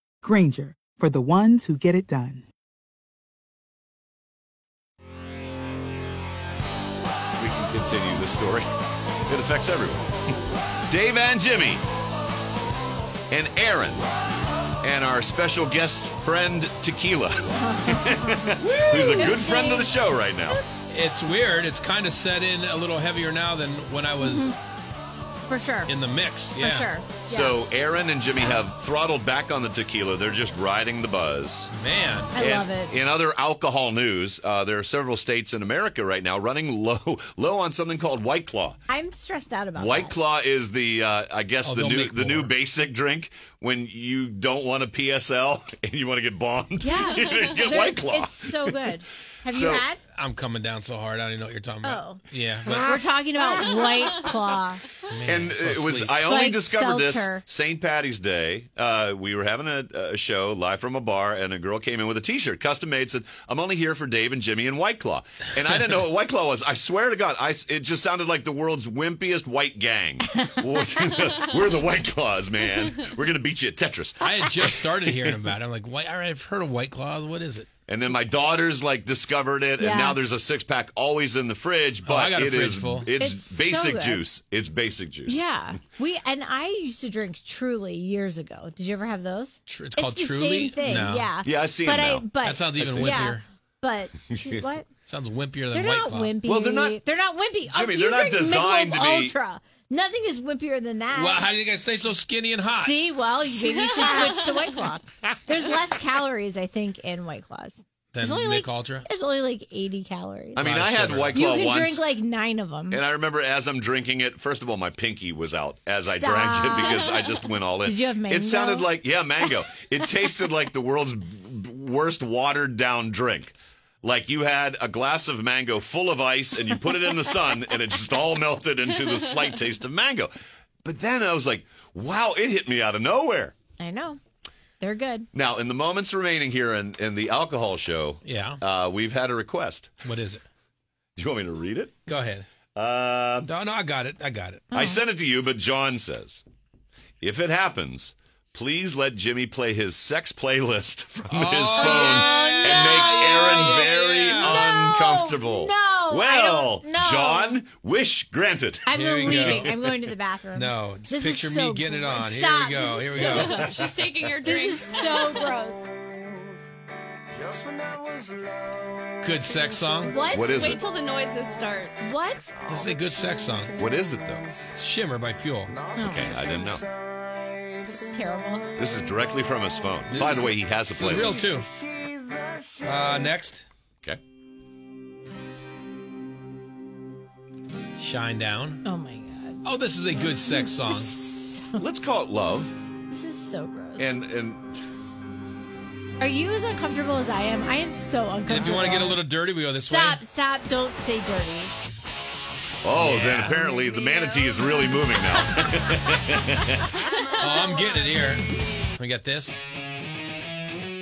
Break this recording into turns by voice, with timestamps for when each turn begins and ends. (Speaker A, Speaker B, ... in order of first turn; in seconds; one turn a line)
Speaker A: 0.2-2.5
Speaker B: 7.4-8.7
Speaker B: 9.3-10.1
Speaker B: 10.9-11.8
Speaker B: 13.3-14.1
Speaker B: 14.8-20.6
Speaker C: 17.6-20.7
Speaker D: 18.7-19.3
Speaker D: 20.9-24.6
Speaker C: 24.2-24.6
Speaker C: 25.4-25.9
Speaker D: 25.9-26.9
Speaker C: 26.6-27.6
Speaker B: 27.3-31.7
Speaker D: 31.7-32.3
Speaker C: 32.3-32.9
Speaker B: 32.4-38.8
Speaker C: 38.9-40.2
Speaker B: 39.8-48.8
Speaker D: 41.6-42.5
Speaker C: 46.8-50.0
Speaker B: 49.5-49.9
Speaker D: 50.1-52.9
Speaker C: 51.8-54.9
Speaker B: 52.7-53.0
Speaker D: 55.1-56.2
Speaker B: 55.2-75.4
Speaker C: 56.2-57.4
Speaker D: 74.2-77.7
Speaker B: 77.9-85.5
Speaker C: 79.8-80.2
Speaker D: 82.0-83.1
Speaker C: 83.2-84.2
Speaker C: 85.2-94.9
Speaker D: 89.7-91.3
Speaker B: 91.4-93.2
Speaker D: 92.4-93.4
Speaker D: 95.0-96.4
Speaker C: 95.7-101.5
Speaker B: 96.4-97.0
Speaker B: 97.6-99.3
Speaker D: 101.1-103.0
Speaker C: 102.7-110.6
Speaker E: 103.7-104.6
Speaker D: 108.1-109.1
Speaker B: 110.5-112.0
Speaker D: 110.6-111.5
Speaker C: 111.3-113.0
Speaker B: 112.9-130.3
Speaker C: 116.0-117.2
Speaker C: 117.8-118.9
Speaker B: 130.8-133.5
Speaker C: 133.8-134.2
Speaker C: 134.8-135.3
Speaker B: 135.3-139.9
Speaker D: 138.2-138.6
Speaker D: 140.0-140.4
Speaker B: 141.2-141.9
Speaker D: 142.1-142.5
Speaker B: 142.7-143.5
Speaker D: 143.4-144.7
Speaker C: 144.7-145.0
Speaker B: 144.7-146.4
Speaker B: 147.2-159.7
Speaker D: 151.3-154.6
Speaker C: 151.8-157.6
Speaker C: 158.8-163.9
Speaker D: 158.9-159.9
Speaker D: 160.5-164.0
Speaker E: 163.2-165.6
Speaker C: 164.4-165.9
Speaker F: 167.3-170.7
Speaker D: 169.2-170.3
Speaker C: 170.1-170.8
Speaker B: 170.3-170.8
Speaker E: 170.5-172.0
Speaker C: 172.0-172.5
Speaker F: 172.6-173.6
Speaker D: 172.7-173.8
Speaker B: 173.8-174.7
Speaker D: 174.7-175.8
Speaker F: 175.7-178.0
Speaker C: 175.9-176.5
Speaker B: 176.0-176.8
Speaker C: 177.9-178.7
Speaker B: 178.8-181.4
Speaker D: 180.1-181.7
Speaker F: 181.4-183.3
Speaker D: 182.8-183.7
Speaker D: 188.0-188.8
Speaker C: 188.8-189.6
Speaker D: 189.6-191.2
Speaker C: 190.5-191.8
Speaker B: 191.8-192.7
Speaker C: 193.1-194.2
Speaker B: 194.0-194.6
Speaker C: 196.2-199.2
Speaker D: 198.5-200.2
Speaker C: 199.9-201.7
Speaker B: 202.8-207.0
Speaker D: 202.9-203.7
Speaker C: 203.7-207.9
Speaker D: 207.3-208.4
Speaker D: 209.0-209.6